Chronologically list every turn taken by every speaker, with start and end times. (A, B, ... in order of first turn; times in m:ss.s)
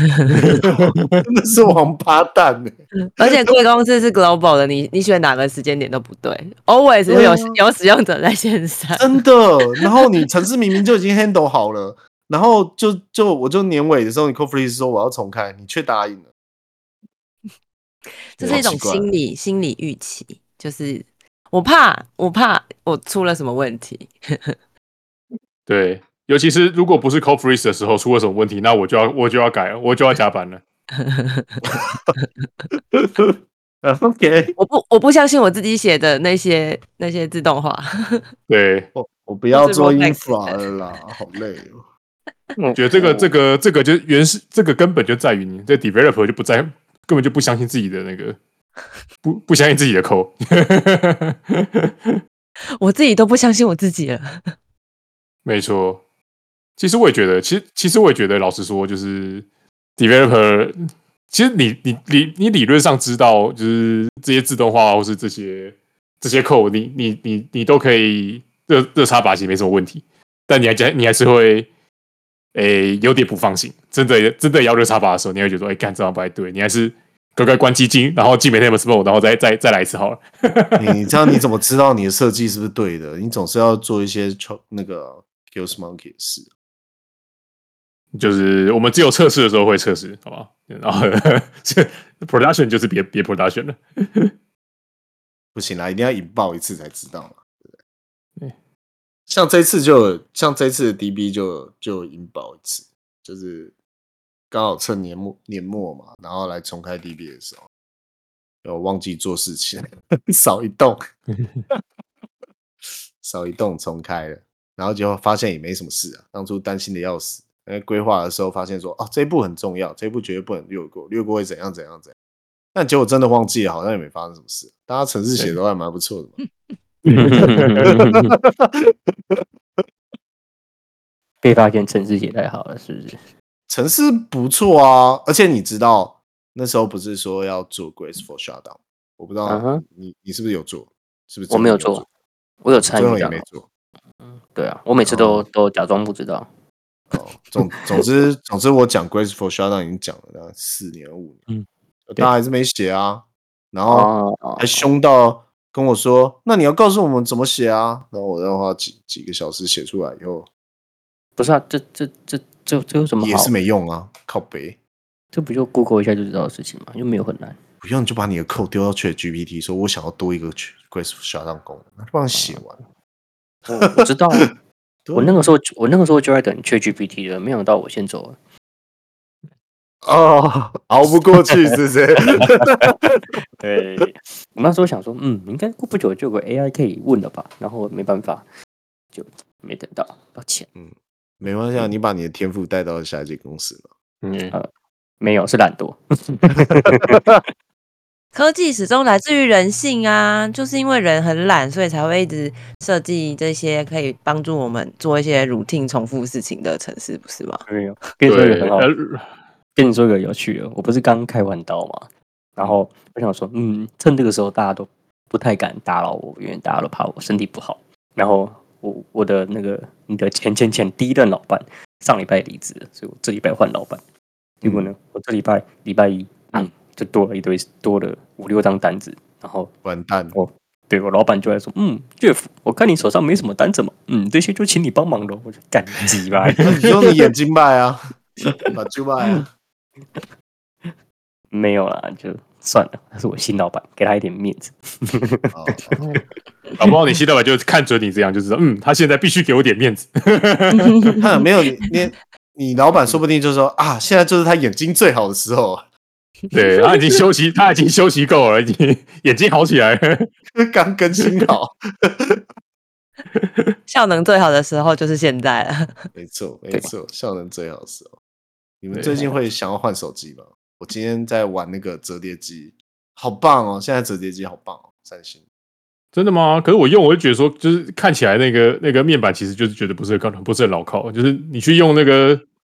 0:00.3-0:03.4 A
0:00.4-0:01.2 B
0:03.0-0:09.1 C
0:07.1-0:07.6 A
0:09.0-0:16.3 A
0:09.7-0:10.0 C
0:18.3-0:24.5 C
0:18.4-0:19.1 A
0:25.7-0:30.6 B
0:31.0-0:32.2 C
0:31.7-0:32.0 A
0:32.9-0:34.5 A
0:34.6-0:38.2 C
0:38.5-0:38.9 B
0:38.9-0:41.8 A
0:39.5-0:40.5 C
0:42.6-0:43.3 D
0:42.8-0:48.4 B
0:49.2-0:52.1 B
0:52.8-0:54.4 C
0:55.4-0:56.0 B
0:56.8-0:59.4 B
1:00.0-1:00.8 B
1:01.3-1:11.7 B
1:12.5-1:21.4 B
1:20.8-1:26.5 A
1:28.1-1:34.3 B
1:35.5-1:37.8 A
1:39.3-1:43.7 A
1:44.5-1:47.6 A
1:48.6-1:51.0 A
1:53.2-2:02.1 A
2:02.7-2:06.4 A
2:07.0-2:08.3 D
2:07.1-2:07.9 B
2:07.3-2:09.4 A
2:11.4-2:13.2 D
2:13.7-2:22.0 A
2:19.5-2:19.8 D
2:21.5-2:22.0 D
2:22.6-2:23.4 D
2:22.8-2:23.6 A
2:24.3-2:26.5 D
2:25.0-2:25.4 A
2:27.1-2:31.4 A
2:32.1-2:40.5 A
2:33.9-2:34.8 D
2:41.4-2:43.5 D
2:43.2-2:44.8 A
2:45.3-2:47.6 D
2:47.8-2:52.8 A
2:52.3-2:52.6 D
2:53.7-2:54.5 D
2:53.7-2:54.4 A
2:55.0-2:55.3 A
2:55.1-2:58.4 D
3:00.0-3:03.3 A
3:02.4-3:02.9 D
3:03.6-3:08.4 D
3:09.1-3:10.7 D
3:10.8-3:13.9 A
3:14.2-3:14.5 B
3:15.2-3:17.2 D
3:18.3-3:27.6 C
3:27.7-3:28.9 D
3:28.2-3:29.3 B
3:29.8-3:44.0 D
3:44.6-3:49.7 D
3:44.6-3:44.9 A
3:49.8-3:50.4 A
3:50.3-3:56.8 D
3:56.6-3:59.5 A
4:01.5-4:06.2 D
4:05.5-4:06.0 A
4:06.8-4:11.2 B
4:10.7-4:11.8 C
4:11.2-4:15.8 A
4:16.5-4:20.3 B
4:16.6-4:16.8 C
4:20.6-4:22.4 A
4:23.4-4:23.7 B
4:23.9-4:26.0 C
4:26.1-4:28.1 A
4:28.8-4:35.4 A
4:28.9-4:29.2 B
4:36.1-4:42.4 B